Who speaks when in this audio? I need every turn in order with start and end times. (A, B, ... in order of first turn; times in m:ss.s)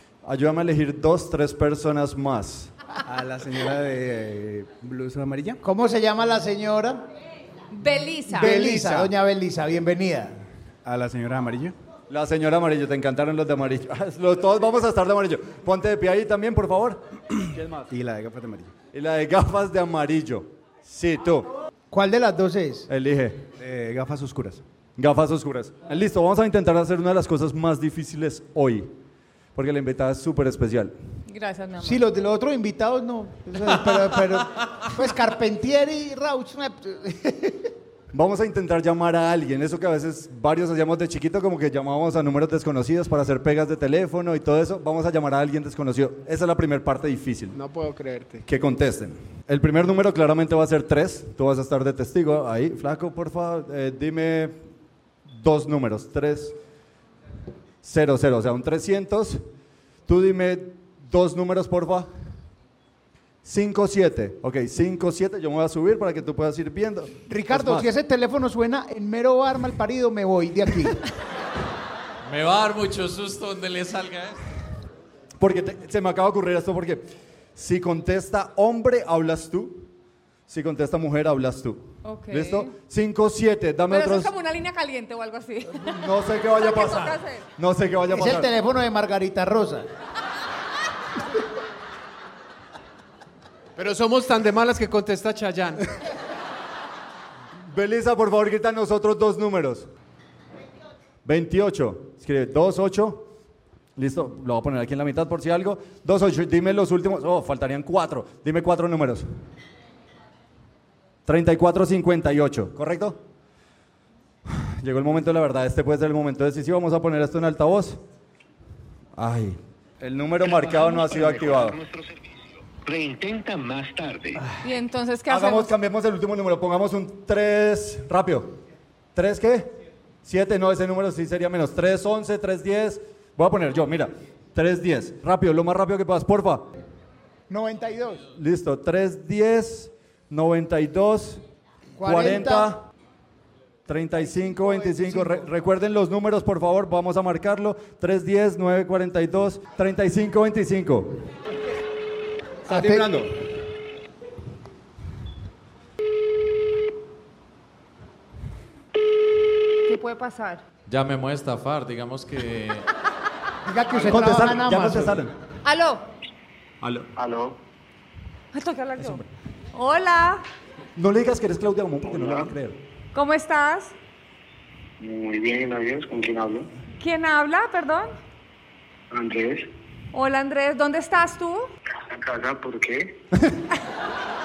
0:00.2-0:02.7 A
0:03.1-0:05.6 B
0:05.6-0:07.0 C
0:07.7-0:08.5 D
0:08.3-0:10.4 C
0:08.4-0:09.1 B
0:10.8-0:11.7 B
0:12.1-0:17.9 A
0:17.9-0:18.7 B
0:18.9-0:21.5 A
0:21.9-0:22.9 C
0:22.9-0:23.5 A
0:23.6-0:24.6 B
0:25.0-0:28.9 A
0:29.6-0:30.9 A
0:31.3-0:32.0 D
0:31.8-0:37.7 C
0:38.1-0:47.6 A
0:47.5-0:48.4 E
0:48.4-0:54.6 A
0:55.3-0:56.6 A
0:57.8-0:59.4 A
1:00.1-1:02.1 A
1:03.4-1:07.9 A
1:07.3-1:11.0 C
1:12.2-1:14.4 F
1:15.4-1:19.9 A
1:20.5-1:24.3 A
1:22.0-1:22.7 D
1:23.9-1:27.5 D
1:25.7-1:28.5 A
1:28.1-1:29.9 C
1:33.8-1:35.8 E
1:37.7-1:39.9 A
1:41.2-1:43.3 A
1:44.0-1:49.3 A
1:51.3-1:53.2 A
1:54.5-1:58.0 A
1:59.2-2:01.8 A
2:00.4-2:04.4 G
2:04.6-2:05.7 D
2:05.3-2:08.6 A
2:09.2-2:09.7 A
2:10.2-2:16.7 A
2:17.5-2:18.3 C
2:18.3-2:21.4 A
2:22.0-2:22.7 C
2:22.0-2:22.8 A
2:23.9-2:31.3 A
2:24.2-2:25.5 C
2:32.7-2:33.1 C
2:32.7-2:33.3 A
2:39.9-2:40.6 D
2:40.9-2:42.8 F
2:43.7-2:45.2 C
2:44.0-2:45.3 A
2:45.6-2:46.0 D
2:46.8-2:47.1 A
2:47.2-2:47.6 G
2:48.5-2:50.4 D
2:49.0-2:49.2 A
2:51.0-2:52.8 A
2:52.0-2:52.5 G
2:53.1-2:53.9 D
2:55.0-2:56.7 G
2:57.0-2:58.1 D
2:59.1-2:59.7 G
3:00.1-3:01.7 D
3:02.1-3:03.1 G